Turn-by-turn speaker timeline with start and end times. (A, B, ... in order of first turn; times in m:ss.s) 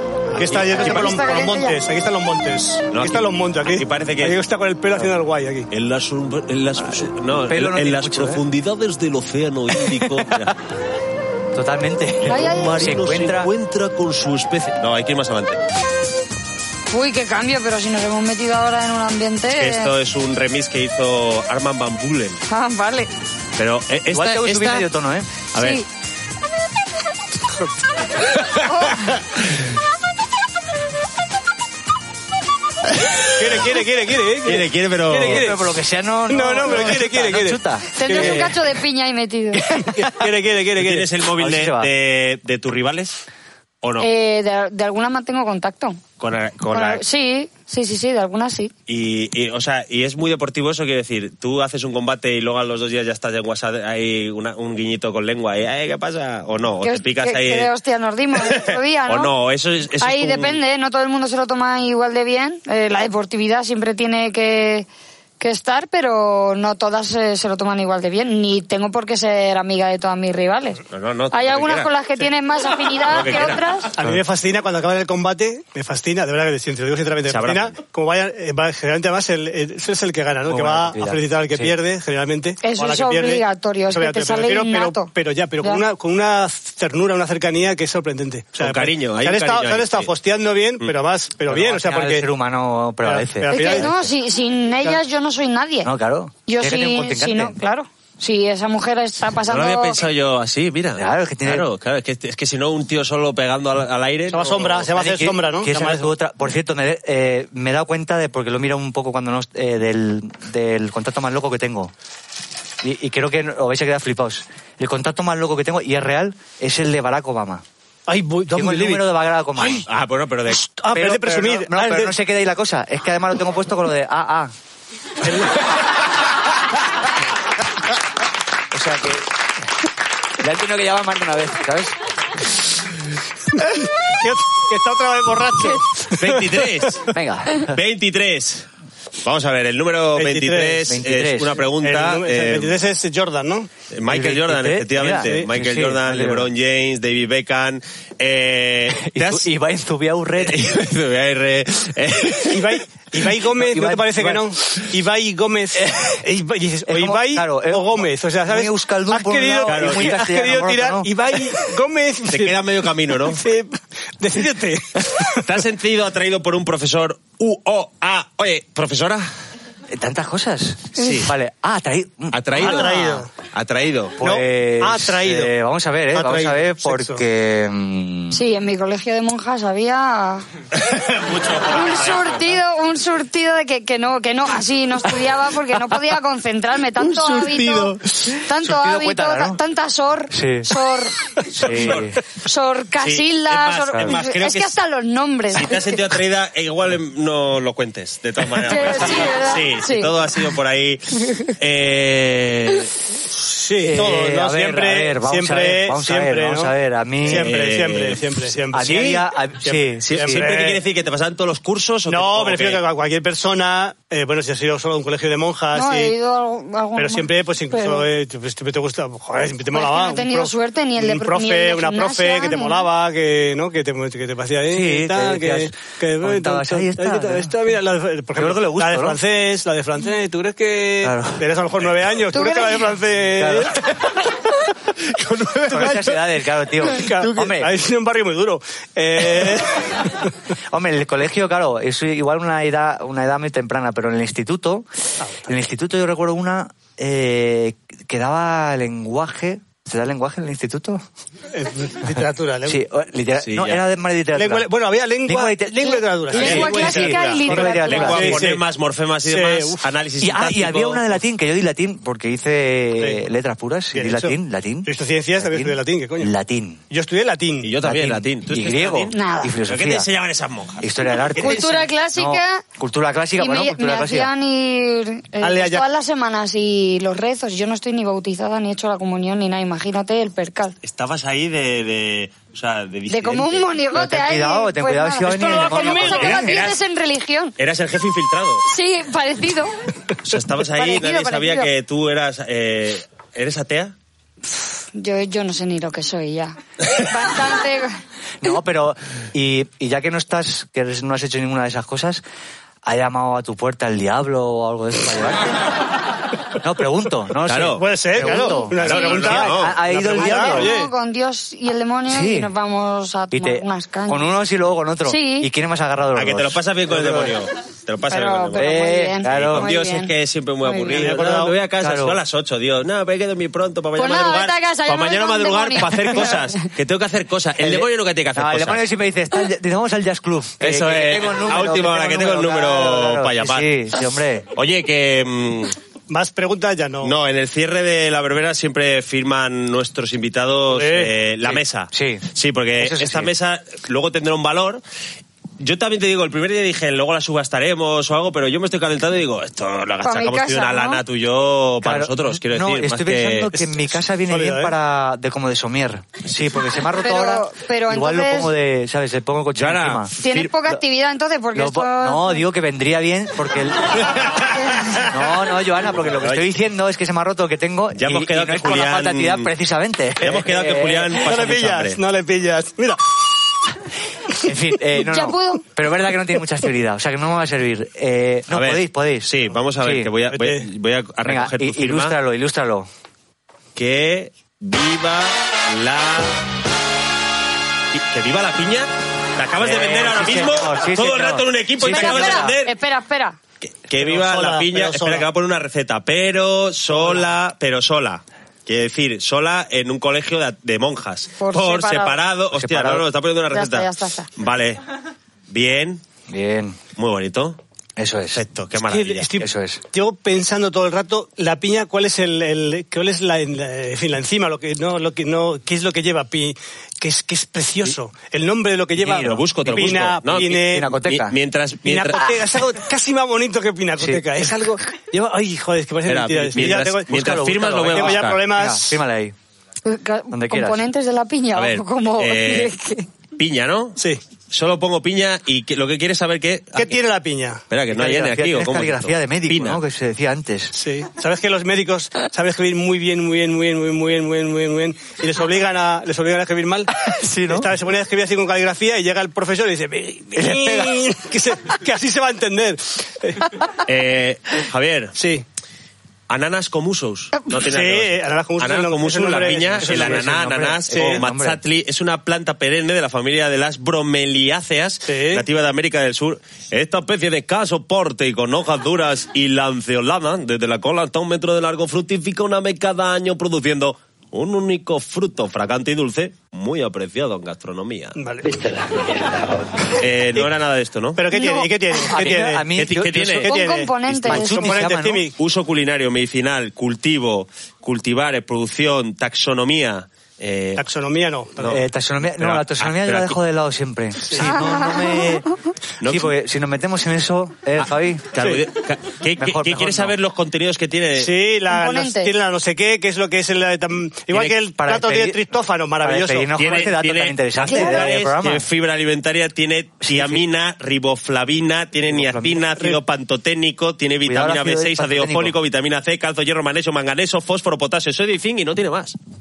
0:00.3-0:05.7 A
0:00.4-0:01.1 B
0:00.7-0:01.8 C
0:02.9-0:04.4 B
0:05.7-0:10.5 B
0:07.5-0:08.4 D
0:09.7-0:10.5 D
0:11.5-0:13.5 D
0:12.2-0:15.6 B
0:12.3-0:12.9 C
0:16.9-0:19.9 C
0:19.5-0:22.4 B
0:22.5-0:23.1 C
0:23.6-0:24.9 B
0:24.1-0:25.4 D
0:25.5-0:25.8 B
0:25.5-0:25.8 C
0:28.6-0:29.2 C
0:33.4-0:35.7 A
0:34.4-0:35.5 B
0:35.3-0:38.4 D
0:36.3-0:38.5 A
0:37.9-0:39.6 C
0:39.7-0:41.0 A
0:39.8-0:40.3 D
0:40.8-0:43.2 B
0:41.4-0:41.9 D
0:43.8-0:44.1 B
0:44.0-0:46.0 C
0:46.2-0:47.0 B
0:46.7-0:48.7 C
0:48.9-0:57.7 B
0:56.8-0:59.3 C
0:58.4-1:00.6 B
1:00.0-1:04.9 C
1:05.4-1:13.9 C
1:10.9-1:11.9 B
1:13.1-1:13.6 B
1:14.0-1:32.2 A
1:17.3-1:17.7 B
1:20.5-1:21.7 D
1:22.6-1:25.8 C
1:28.6-1:30.1 B
1:31.5-1:33.9 D
1:33.0-1:33.9 A
1:33.5-1:35.9 C
1:35.8-1:37.6 D
1:36.5-1:40.0 C
1:39.5-1:44.9 B
1:40.9-1:41.7 D
1:44.3-1:46.1 A
1:44.9-1:51.9 D
1:52.8-1:57.6 D
1:58.1-1:59.0 A
1:58.5-1:59.9 D
1:59.6-1:59.8 A
1:59.9-2:00.6 B
2:00.5-2:02.1 A
2:00.9-2:04.5 D
2:05.2-2:05.6 A
2:08.7-2:09.3 D
2:10.4-2:11.9 D
2:13.8-2:16.9 A
2:16.1-2:18.6 B
2:17.1-2:17.8 D
2:19.2-2:22.7 B
2:20.1-2:20.9 A
2:20.9-2:21.6 D
2:21.8-2:23.7 A
2:23.9-2:29.5 B
2:24.1-2:26.5 D
2:25.2-2:25.5 A
2:28.9-2:30.7 D
2:30.4-2:32.8 B
2:32.5-2:42.6 A
2:33.5-2:34.4 D
2:35.8-2:36.1 D
2:36.9-2:41.1 D
2:39.7-2:40.2 B
2:42.3-2:43.4 B
2:43.2-2:45.4 A
2:45.3-2:49.3 B
2:49.9-2:53.0 D
2:50.9-2:51.3 B
2:52.3-2:54.2 B
2:52.5-2:53.3 A
2:54.2-2:58.4 D
2:54.2-2:55.5 A
2:56.1-2:57.2 A
2:58.3-3:00.5 C
3:00.7-3:02.5 B
3:01.6-3:11.1 C
3:07.0-3:09.6 D
3:10.3-3:10.7 D
3:11.5-3:12.2 D
3:12.3-3:16.0 C
3:13.0-3:14.7 B
3:15.5-3:22.9 B
3:18.6-3:20.1 C
3:23.3-3:30.8 A
3:23.8-3:27.5 D
3:27.2-3:28.2 B
3:28.7-3:30.5 D
3:28.8-3:29.2 B
3:30.0-3:32.8 B
3:32.1-3:36.1 A
3:35.7-3:38.1 C
3:37.0-3:53.8 A
3:39.7-3:42.8 C
3:44.7-3:47.8 D
3:48.3-3:49.2 D
3:51.0-3:51.4 D
3:52.3-3:52.9 C
3:53.4-3:53.8 D
3:55.1-3:55.7 B
3:55.7-3:57.7 D
3:55.7-3:56.2 A
3:57.0-4:00.3 A
4:00.7-4:04.9 D
4:05.4-4:11.0 D
4:11.5-4:12.8 A
4:12.6-4:14.7 D
4:13.4-4:13.8 B
4:14.3-4:18.6 A
4:15.2-4:18.4 D
4:16.3-4:18.4 C
4:16.3-4:21.2 B
4:19.2-4:19.8 A
4:20.2-4:26.8 D
4:23.0-4:23.2 A
4:23.9-4:26.3 A
4:26.9-4:27.7 A
4:27.6-4:31.8 B
4:27.8-4:30.1 D
4:29.1-4:29.5 C
4:30.8-4:34.3 D
4:31.4-4:32.6 C
4:33.4-4:40.8 C
4:35.4-4:35.8 A
4:40.8-4:43.7 B
4:43.1-4:47.5 C
4:43.9-4:46.5 D
4:45.3-4:46.6 A
4:46.0-4:46.8 B
4:47.6-4:48.6 B
4:48.6-4:49.7 C
4:50.2-4:53.9 B
4:50.7-4:51.7 C
4:54.5-4:58.0 C
4:58.4-5:02.2 D
5:02.8-5:05.6 D
5:06.6-5:10.7 D
5:07.4-5:09.8 B
5:07.8-5:10.9 A
5:08.8-5:09.4 C
5:10.1-5:14.3 C
5:12.1-5:12.5 D
5:13.3-5:17.4 D
5:15.0-5:15.5 C
5:16.1-5:28.8 B
5:18.1-5:20.1 C
5:18.6-5:19.7 D
5:20.7-5:21.5 A
5:21.8-5:22.2 D
5:24.0-5:26.5 C
5:27.6-5:34.5 D
5:30.6-5:33.7 B
5:34.5-5:35.8 B
5:36.1-5:37.1 A
5:37.0-5:44.8 B
5:40.7-5:41.1 A
5:41.5-5:43.3 D
5:45.6-5:53.7 B
5:50.0-5:51.0 C
5:51.8-6:00.1 D
5:54.3-5:54.7 A
5:56.9-5:58.5 C
5:59.5-6:00.5 B
6:00.2-6:02.4 C
6:01.5-6:04.4 D
6:03.9-6:05.2 B
6:05.0-6:11.2 D
6:06.2-6:06.5 B
6:07.9-6:09.5 B
6:10.2-6:12.0 B
6:11.1-6:13.1 A
6:14.4-6:20.1 D
6:15.0-6:15.6 C
6:18.5-6:22.1 B
6:20.3-6:20.7 A
6:21.2-6:22.9 D
6:23.8-6:26.4 B
6:27.9-6:32.7 B
6:29.6-6:32.6 D
6:31.8-6:33.4 C
6:33.6-6:44.8 B
6:34.0-6:35.3 A
6:36.9-6:37.2 A
6:41.4-6:42.2 C
6:42.5-6:43.1 D
6:43.5-6:44.3 C
6:45.5-6:46.0 B
6:46.3-6:46.8 D
6:47.0-6:47.6 B
6:48.0-6:48.4 D
6:48.3-6:49.3 B
6:48.8-7:01.0 A
6:49.4-6:49.8 D
6:59.0-7:01.4 D
6:59.0-7:02.4 B
7:01.8-7:09.0 A
7:04.0-7:04.3 D
7:06.1-7:08.4 B
7:07.1-7:09.3 D
7:09.8-7:13.1 C
7:10.3-7:10.8 D
7:11.5-7:12.7 B
7:13.4-7:17.0 B
7:16.8-7:17.6 A
7:17.7-7:19.8 B
7:17.9-7:20.8 D
7:20.7-7:26.9 A
7:27.0-7:27.7 D
7:27.5-7:33.6 A
7:30.3-7:31.0 D
7:33.8-7:35.2 B
7:35.2-7:35.4 A
7:36.3-7:58.2 B
7:37.6-7:40.3 A
7:39.8-7:41.6 D
7:40.9-7:41.2 A
7:45.1-7:45.4 A
7:58.2-7:58.6 A
7:58.5-7:59.8 D
7:59.9-8:01.2 B
8:01.2-8:02.7 A
8:01.3-8:01.7 C
8:02.1-8:03.4 D
8:02.1-8:03.5 B
8:03.4-8:05.3 A
8:03.4-8:04.8 C
8:04.2-8:05.2 D
8:05.4-8:10.8 B
8:10.8-8:11.8 A
8:11.7-8:15.4 D
8:12.4-8:13.4 B
8:14.4-8:15.3 C
8:16.0-8:16.3 B
8:16.0-8:18.3 D
8:17.8-8:21.3 B
8:19.4-8:20.1 D
8:21.2-8:26.5 A
8:21.7-8:22.3 C
8:24.3-8:25.4 D
8:26.0-8:28.6 D
8:26.6-8:39.2 B
8:27.7-8:28.1 C
8:30.0-8:30.4 D
8:32.1-8:32.7 D
8:34.2-8:35.6 D